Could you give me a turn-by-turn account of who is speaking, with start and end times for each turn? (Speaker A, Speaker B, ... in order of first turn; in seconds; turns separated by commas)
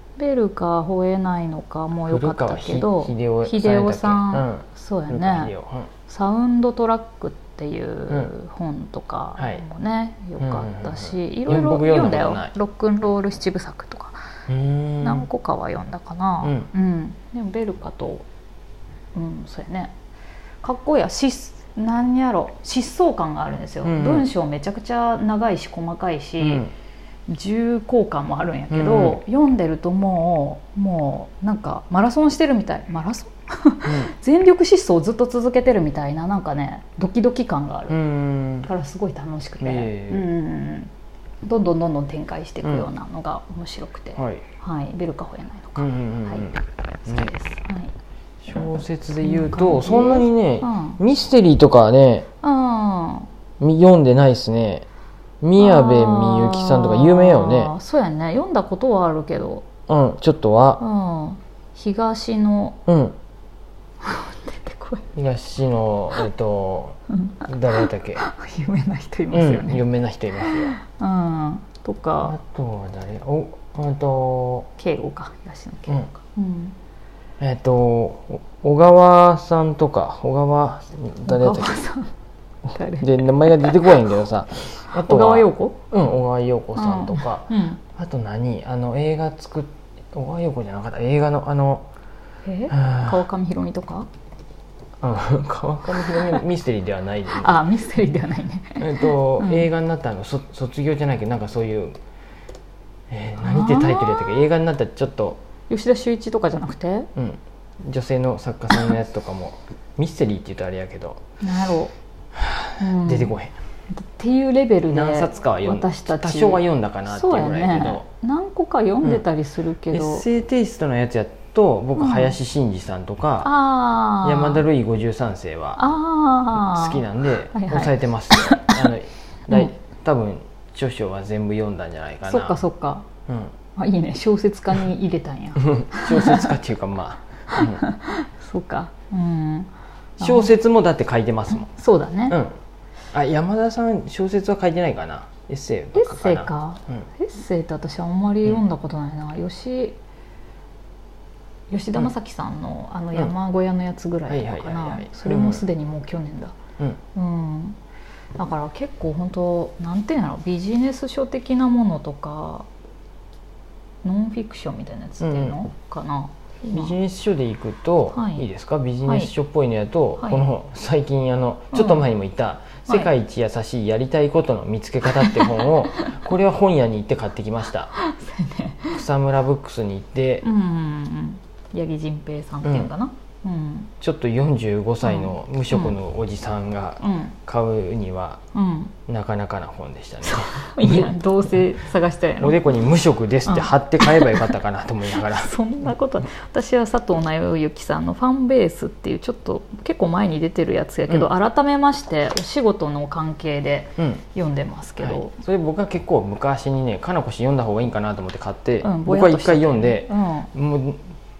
Speaker A: 0.2-5.5, Speaker B: 2.1-5.9, Speaker A: 6.1-14.2, Speaker B: 9.4-9.6, Speaker B: 10.4-12.5, Speaker B: 14.5-15.3, Speaker A: 15.0-18.2, Speaker B: 16.4-16.7, Speaker A: 19.1-19.9, Speaker A: 20.6-26.7, Speaker B: 23.8-24.3, Speaker B: 26.4-26.7, Speaker A: 27.3-38.0, Speaker B: 28.7-29.2, Speaker B: 33.9-34.1, Speaker B: 37.9-38.7, Speaker A: 38.6-40.9, Speaker B: 39.6-40.3, Speaker A: 41.4-47.9, Speaker B: 42.6-42.9, Speaker B: 44.2-44.4, Speaker B: 45.8-47.3, Speaker B: 48.4-52.3, Speaker A: 49.2-51.0, Speaker A: 52.4-53.3, Speaker B: 53.6-54.9, Speaker B: 55.4-57.7, Speaker A: 55.6-59.7, Speaker B: 59.9-60.8, Speaker A: 60.8-62.8, Speaker B: 62.9-63.2, Speaker A: 64.0-65.0, Speaker B: 65.2-68.2, Speaker A: 67.1-69.8, Speaker B: 69.3-70.8, Speaker A: 70.4-72.3, Speaker B: 72.2-74.7, Speaker A: 74.8-76.8, Speaker B: 77.4-81.8, Speaker A: 81.3-82.1, Speaker A: 82.7-84.1, Speaker B: 83.0-91.9, Speaker A: 84.9-85.8, Speaker A: 86.8-87.8, Speaker A: 92.5-94.1, Speaker B: 92.7-93.2, Speaker B: 95.0-97.7, Speaker A: 96.1-96.4, Speaker A: 97.3-99.7, Speaker B: 98.8-102.0, Speaker B: 103.1-105.4, Speaker A: 103.4-104.4, Speaker A: 105.7-107.1, Speaker B: 107.2-111.2, Speaker A: 111.4-111.9, Speaker B: 112.3-113.5, Speaker A: 112.8-113.4, Speaker A: 114.0-120.3, Speaker B: 114.9-118.0, Speaker B: 119.9-123.5, Speaker A: 122.0-122.4, Speaker A: 123.4-124.6, Speaker B: 124.2-125.8, Speaker A: 125.8-128.9, Speaker B: 126.5-132.6, Speaker A: 132.2-133.1, Speaker B: 133.3-133.5, Speaker A: 133.8-136.5, Speaker B: 135.6-137.8, Speaker A: 137.5-140.5, Speaker B: 140.2-141.7, Speaker A: 141.5-142.4, Speaker B: 142.3-142.5, Speaker B: 143.1-147.0, Speaker A: 145.9-150.0, Speaker A: 151.7-156.6, Speaker B: 154.3-155.7, Speaker A: 157.2-157.8, Speaker A: 158.4-162.7, Speaker A: 164.0-166.9, Speaker B: 165.2-165.6, Speaker B: 166.7-177.9, Speaker A: 168.1-168.4, Speaker A: 169.0-169.3, Speaker A: 170.2-170.5, Speaker A: 171.7-172.1, Speaker A: 175.1-176.2, Speaker A: 177.9-179.0, Speaker B: 178.9-180.5, Speaker A: 180.4-183.9, Speaker B: 182.6-182.9, Speaker B: 184.0-188.4, Speaker A: 185.0-186.0, Speaker A: 187.0-187.3, Speaker A: 188.5-188.9, Speaker B: 189.1-191.1, Speaker A: 190.2-192.8, Speaker B: 192.4-195.5, Speaker A: 193.5-194.6, Speaker A: 195.1-205.4, Speaker B: 205.0-211.0, Speaker A: 208.8-210.5